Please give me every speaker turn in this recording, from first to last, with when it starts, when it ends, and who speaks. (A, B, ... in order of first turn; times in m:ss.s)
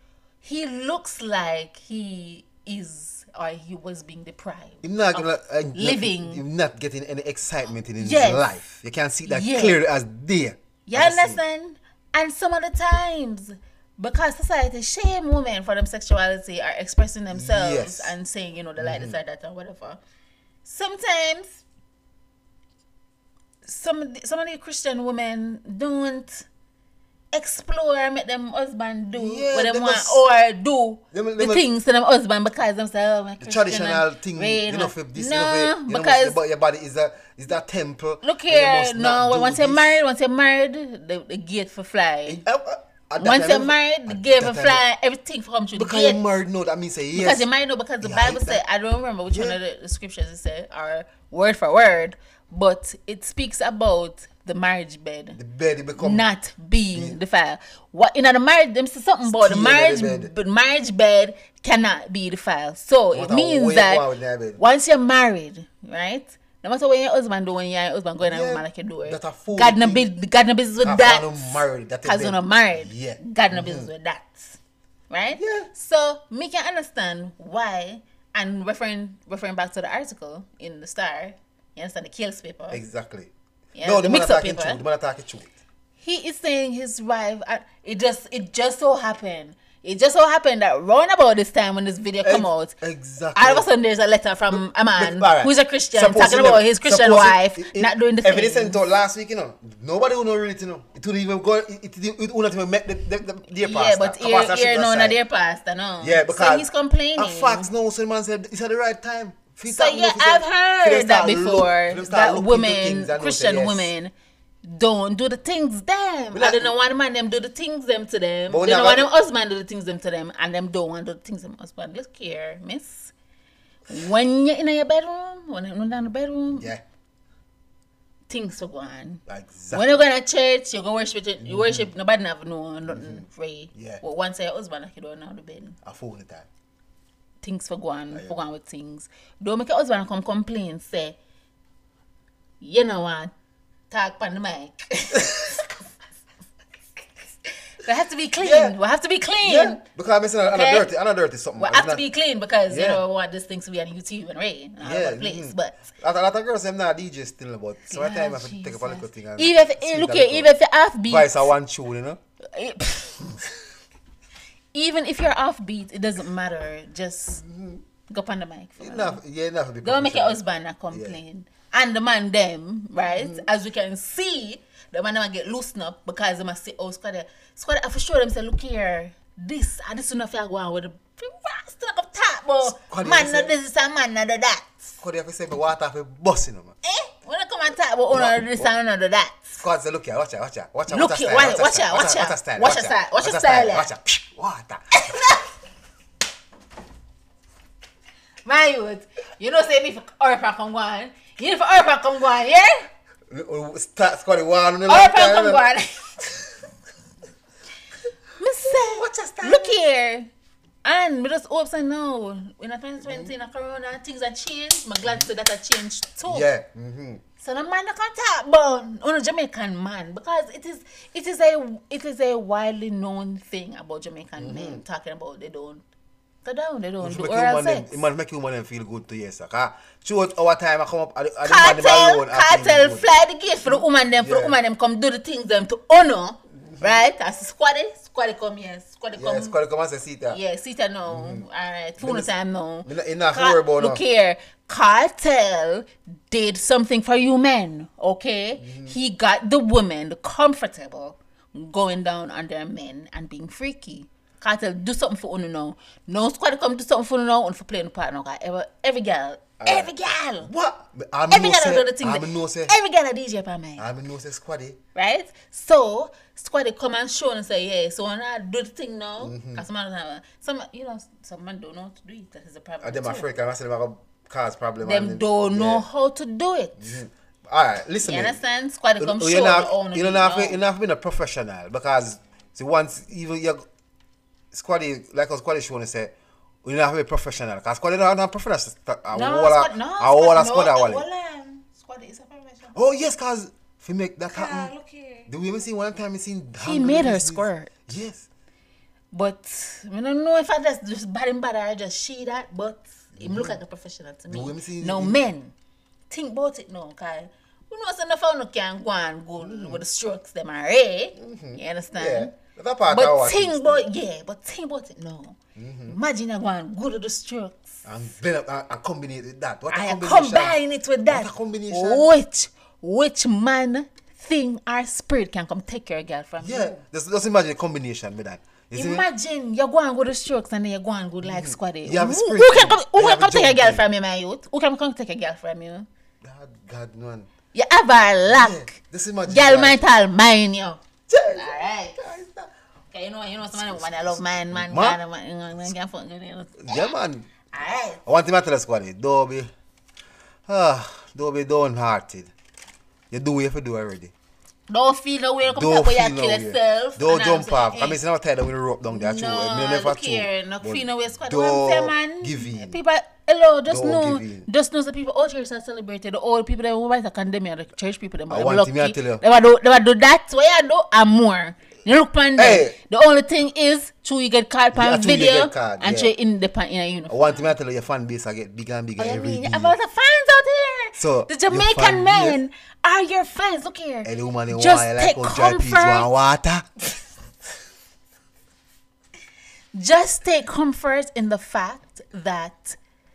0:00.4-0:06.4 A
0:04.8-0:11.4 B
0:08.0-0:08.5 A
0:09.3-0:09.8 A
0:10.9-0:20.0 A
0:17.3-0:18.1 B
0:18.8-0:19.2 B
0:20.6-0:21.6 A
0:23.6-0:26.5 A
0:27.3-0:36.4 A
0:29.2-0:30.2 B
0:31.1-0:31.7 B
0:33.4-0:40.0 B
0:38.2-0:42.4 A
0:42.3-0:44.8 B
0:43.2-0:46.2 A
0:45.8-0:47.5 B
0:47.1-0:55.4 A
0:48.0-0:48.6 B
0:49.3-0:49.6 B
0:55.4-0:56.3 B
0:56.0-1:04.0 A
0:56.9-0:57.2 B
0:59.2-1:00.3 B
1:03.1-1:04.6 B
1:04.6-1:14.6 A
1:08.2-1:10.1 B
1:10.8-1:13.9 B
1:15.1-1:22.8 A
1:15.4-1:15.7 B
1:22.7-1:25.5 B
1:23.8-1:24.8 A
1:26.0-1:32.8 A
1:32.2-1:33.7 B
1:33.4-1:38.8 A
1:34.5-1:45.2 B
1:43.6-1:47.7 A
1:46.0-1:53.9 B
1:49.7-1:54.1 A
1:54.6-2:03.1 A
1:56.3-1:56.7 B
1:58.5-1:59.1 B
2:03.9-2:06.7 A
2:06.6-2:06.8 B
2:08.3-2:15.8 A
2:09.3-2:10.0 B
2:11.4-2:11.9 B
2:12.9-2:14.0 B
2:15.8-2:16.5 B
2:17.4-2:21.2 A
2:22.6-2:23.3 A
2:23.9-2:25.8 A
2:27.7-2:29.8 A
2:28.4-2:28.8 B
2:29.4-2:32.0 B
2:30.5-2:30.9 A
2:31.6-2:35.9 A
2:32.7-2:33.0 B
2:34.8-2:40.5 B
2:37.9-2:41.5 A
2:41.1-2:42.2 B
2:42.5-2:43.4 A
2:44.7-2:47.4 A
2:47.4-2:47.8 B
2:48.1-2:49.2 A
2:48.8-2:50.4 B
2:49.8-3:04.9 A
2:50.9-2:51.2 B
2:53.2-2:53.5 B
3:02.6-3:03.5 B
3:05.0-3:06.8 B
3:06.8-3:09.6 A
3:08.1-3:08.7 B
3:09.6-3:14.8 B
3:10.9-3:13.9 A
3:15.0-3:15.4 A
3:18.4-3:22.9 A
3:23.3-3:25.7 B
3:24.9-3:26.5 A
3:28.4-3:30.3 A
3:28.6-3:29.7 B
3:30.8-3:36.5 A
3:33.0-3:33.3 B
3:36.3-3:37.2 B
3:37.4-3:45.8 A
3:44.4-3:44.8 B
3:46.4-3:48.0 A
3:47.0-3:53.1 B
3:51.4-3:59.6 A
3:53.7-3:54.6 B
3:56.6-3:57.0 B
3:59.2-4:00.4 B
4:00.3-4:20.5 A
4:01.1-4:01.4 B
4:02.0-4:02.3 B
4:02.9-4:04.0 B
4:08.6-4:09.0 B
4:19.6-4:22.7 B
4:21.3-4:23.8 A
4:23.8-4:24.8 B
4:25.0-4:33.3 A
4:29.2-4:29.6 B
4:32.8-4:35.9 B
4:34.8-4:37.0 A
4:36.8-4:38.4 B
4:38.0-4:40.6 A
4:39.0-4:43.7 B
4:44.5-4:51.0 B
4:49.1-4:52.7 A
4:52.7-4:54.7 B
4:54.3-4:55.3 A
4:55.3-4:58.3 B
4:56.6-4:57.7 A
4:59.1-5:05.5 A
5:03.2-5:03.6 B
5:04.3-5:05.2 B
5:06.1-5:12.3 A
5:09.4-5:09.8 B
5:11.2-5:13.9 B
5:12.9-5:17.9 A
5:15.6-5:16.0 B
5:17.8-5:20.6 B
5:19.7-5:26.8 A
5:21.1-5:22.1 B
5:26.4-5:29.1 B
5:28.7-5:35.9 A
5:31.2-5:33.8 B
5:36.2-5:37.3 B
5:37.5-5:38.7 A
5:38.3-5:39.8 B
5:39.3-5:42.0 A
5:41.1-5:42.5 B
5:42.9-5:46.8 A
5:43.5-5:45.0 B
5:46.6-5:47.3 B
5:47.5-5:48.0 A
5:48.0-5:49.5 B
5:50.5-5:52.3 B
5:53.1-5:54.1 B
5:54.7-5:58.0 A
5:55.4-6:02.8 B
5:58.9-6:17.5 A
6:03.7-6:04.5 B
6:08.3-6:09.2 B
6:12.4-6:12.8 B
6:14.7-6:16.1 B
6:17.1-6:19.8 B
6:19.0-6:26.1 A
6:21.0-6:22.4 B
6:24.0-6:26.8 B
6:29.7-6:32.8 A